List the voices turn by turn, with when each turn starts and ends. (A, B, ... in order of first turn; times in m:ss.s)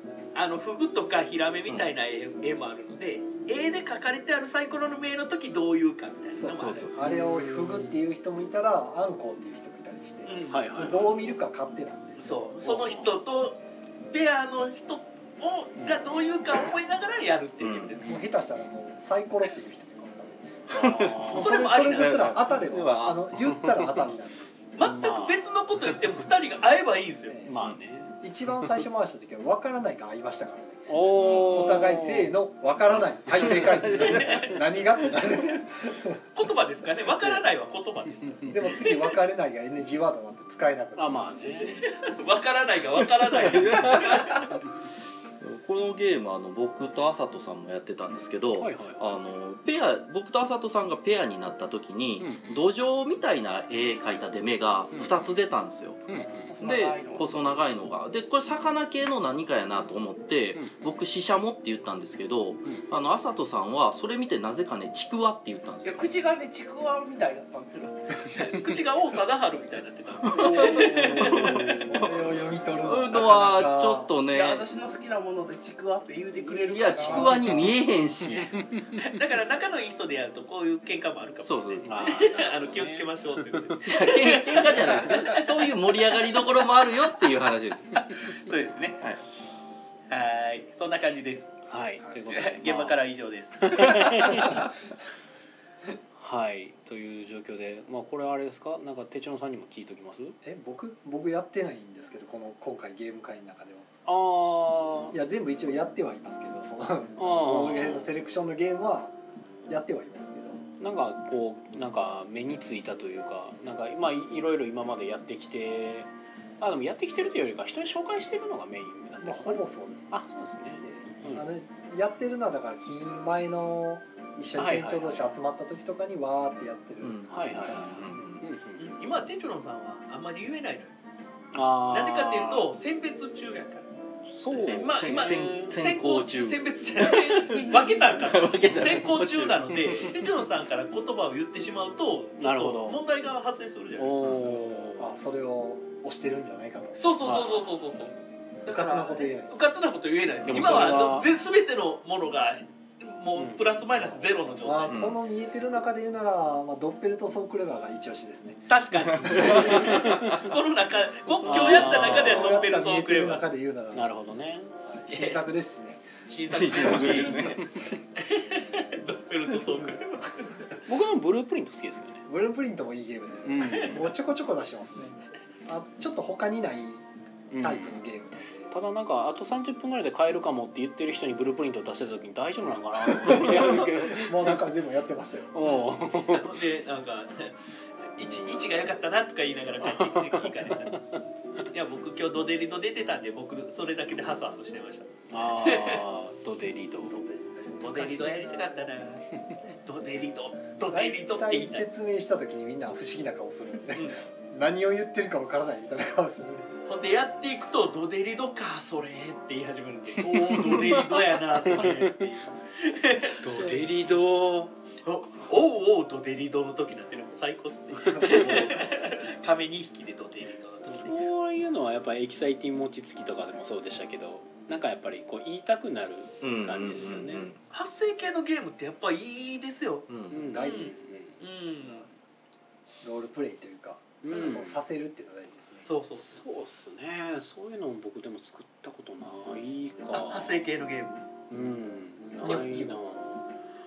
0:00.3-0:06.9 A
0:06.3-0:12.3 B
0:06.5-0:07.0 C
0:07.0-0:08.0 D
0:10.2-0:10.8 A
0:10.5-0:11.1 D
0:12.2-0:13.6 A
0:12.6-0:13.1 D
0:14.1-0:18.2 A
0:17.6-0:17.9 C
0:18.0-0:20.6 B
0:18.0-0:18.6 D
0:20.7-0:21.5 D
0:20.7-0:23.3 C
0:21.2-0:24.5 B
0:21.3-0:22.4 A
0:24.8-0:27.4 A
0:24.8-0:25.4 D
0:27.3-0:27.5 B
0:27.4-0:28.2 D
0:28.2-0:36.2 B
0:30.9-0:32.4 D
0:31.1-0:31.8 C
0:32.9-0:34.4 C
0:33.3-0:33.9 D
0:33.6-0:34.7 A
0:36.3-0:39.2 A
0:38.5-0:41.8 B
0:41.0-0:41.8 D
0:41.6-0:44.6 A
0:43.2-0:44.6 C
0:45.4-0:56.0 C
0:48.5-0:49.0 D
0:52.2-0:52.7 D
0:54.9-0:55.3 D
0:56.1-0:56.5 D
0:56.5-0:57.5 E
0:56.6-1:06.2 C
1:00.5-1:01.0 D
1:02.6-1:02.9 D
1:05.8-1:08.4 E
1:08.3-1:12.0 A
1:10.2-1:12.3 C
1:10.3-1:12.0 D
1:11.5-1:14.1 B
1:12.8-1:14.7 C
1:14.3-1:17.8 E
1:16.4-1:18.6 C
1:17.0-1:17.7 B
1:18.6-1:19.1 D
1:18.9-1:25.7 A
1:21.4-1:21.9 C
1:21.8-1:23.8 D
1:23.8-1:28.2 C
1:28.0-1:29.0 A
1:30.1-1:31.5 A
1:31.7-1:33.0 D
1:32.3-1:34.7 A
1:33.6-1:34.7 D
1:36.2-1:40.4 D
1:40.4-1:43.9 B
1:44.0-1:45.2 D
1:45.1-1:49.1 B
1:47.2-1:48.1 D
1:49.7-1:50.6 B
1:50.8-2:01.5 D
1:59.2-2:00.2 B
2:00.8-2:08.3 B
2:04.6-2:05.3 D
2:07.0-2:08.4 C
2:07.3-2:09.0 D
2:08.8-2:10.9 A
2:11.5-2:12.7 D
2:11.9-2:13.9 A
2:14.3-2:15.7 D
2:14.5-2:20.2 C
2:14.7-2:24.1 A
2:22.4-2:23.0 D
2:24.0-2:25.1 D
2:24.7-2:27.0 B
2:27.0-2:35.0 A
2:27.2-2:27.7 D
2:28.6-2:29.6 B
2:30.4-2:31.3 D
2:30.5-2:30.9 C
2:34.6-2:40.0 B
2:34.8-2:35.2 C
2:38.7-2:43.5 A
2:39.2-2:39.8 C
2:39.4-2:40.3 D
2:41.4-2:42.4 D
2:41.5-2:42.6 C
2:41.7-2:44.1 B
2:43.9-2:44.7 D
2:44.8-2:46.0 B
2:45.1-2:45.4 A
2:46.3-2:50.7 A
2:46.5-2:47.6 C
2:47.4-2:47.7 D
2:50.8-2:52.2 D
2:52.3-2:57.1 B
2:53.4-2:54.2 D
2:57.5-2:58.0 D
2:57.6-2:58.5 B
2:58.7-3:04.7 D
3:03.2-3:05.5 B
3:05.5-3:06.6 D
3:05.6-3:11.0 A
3:09.8-3:11.1 D
3:11.7-3:16.0 A
3:15.3-3:17.2 D
3:17.0-3:18.9 B
3:17.8-3:19.3 A
3:19.8-3:21.8 A
3:20.9-3:26.7 B
3:26.9-3:33.8 A
3:30.2-3:32.2 D
3:33.4-3:34.7 D
3:35.0-3:41.2 A
3:38.0-3:38.9 B
3:40.9-3:47.5 D
3:46.4-3:47.6 C
3:47.7-3:50.1 A
3:50.1-3:50.4 C
3:50.3-3:51.4 D
3:50.4-3:51.3 B
3:50.6-3:52.1 A
3:53.0-3:55.9 B
3:54.2-3:54.8 D
3:55.9-3:56.4 A
3:56.2-4:00.6 D
4:00.1-4:01.2 A
4:01.5-4:03.4 D
4:02.4-4:03.2 B